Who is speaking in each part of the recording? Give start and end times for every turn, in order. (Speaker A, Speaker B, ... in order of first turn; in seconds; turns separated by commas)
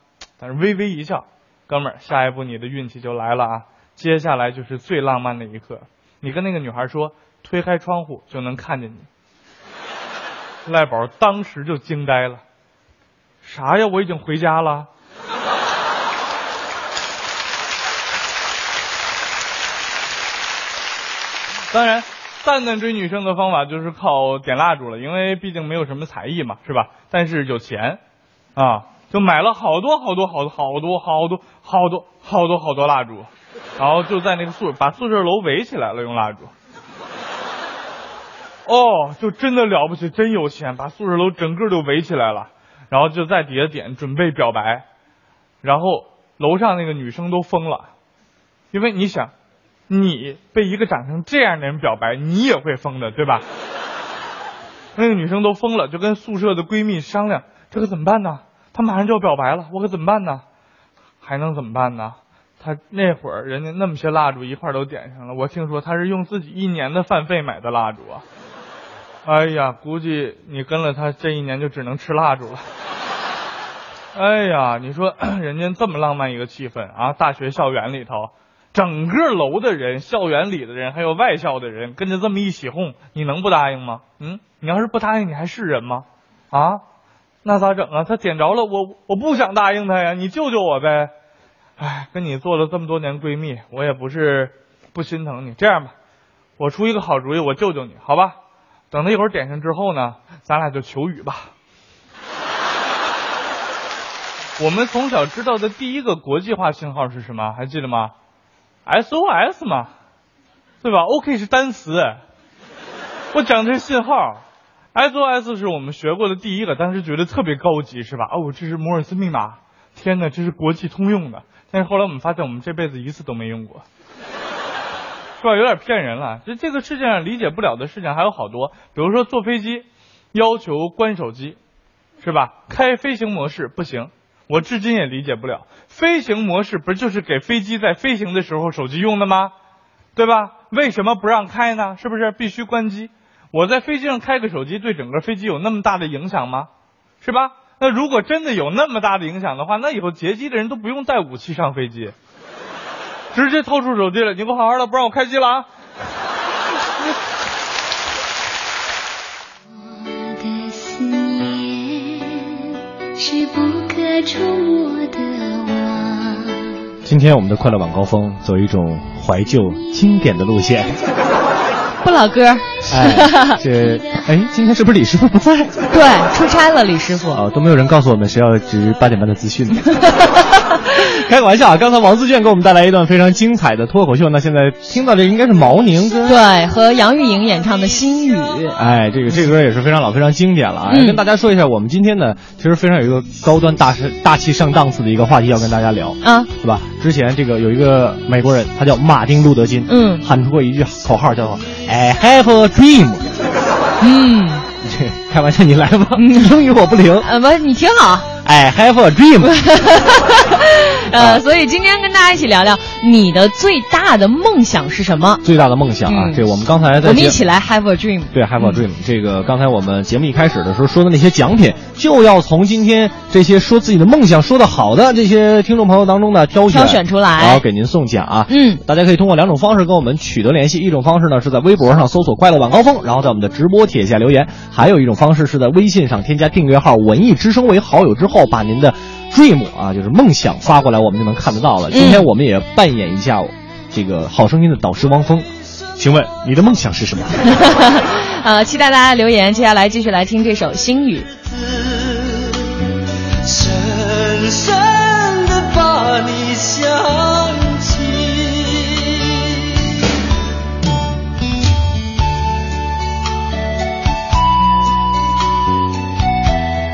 Speaker A: 0.4-9.1, Speaker A: 10.7-12.4, Speaker A: 13.4-14.9, Speaker A: 21.7-28.0, Speaker A: 28.6-36.5, Speaker A: 38.6-44.8, Speaker A: 45.6-47.9, Speaker A: 48.7-49.3, Speaker A: 49.9-53.4, Speaker A: 55.0-60.4, Speaker A: 61.2-68.2, Speaker A: 69.2-72.6, Speaker A: 74.1-86.8, Speaker A: 87.4-91.1, Speaker A: 91.8-95.9, Speaker A: 96.6-98.4, Speaker A: 98.9-101.5, Speaker A: 104.6-108.1, Speaker A: 108.8-109.9, Speaker A: 110.8-112.2, Speaker A: 113.3-114.4, Speaker A: 114.9-123.8, Speaker A: 125.4-131.6, Speaker A: 132.2-139.5, Speaker A: 140.2-146.7, Speaker A: 147.2-152.1, Speaker A: 153.3-155.7, Speaker B: 159.7-162.6, Speaker B: 163.2-166.7, Speaker C: 167.0-171.0, Speaker D: 172.0-173.6, Speaker C: 172.9-175.7, Speaker D: 175.9-177.4, Speaker C: 177.3-180.0, Speaker C: 181.1-186.4, Speaker D: 186.2-188.8, Speaker C: 188.8-203.2, Speaker D: 190.9-191.2, Speaker D: 196.2-196.5, Speaker D: 199.9-200.2, Speaker D: 204.0-204.6, Speaker C: 204.8-207.2, Speaker D: 206.1-206.5, Speaker D: 207.2-208.3, Speaker C: 208.4-209.5, Speaker D: 209.4-215.4, Speaker C: 211.1-211.4, Speaker C: 215.4-217.4, Speaker D: 216.1-216.4, Speaker D: 217.0-218.8, Speaker C: 218.3-247.4, Speaker D: 226.7-227.6, Speaker D: 228.5-228.8, Speaker D: 241.9-242.3, Speaker D: 247.5-251.3, Speaker E: 251.4-252.6, Speaker E: 253.4-259.6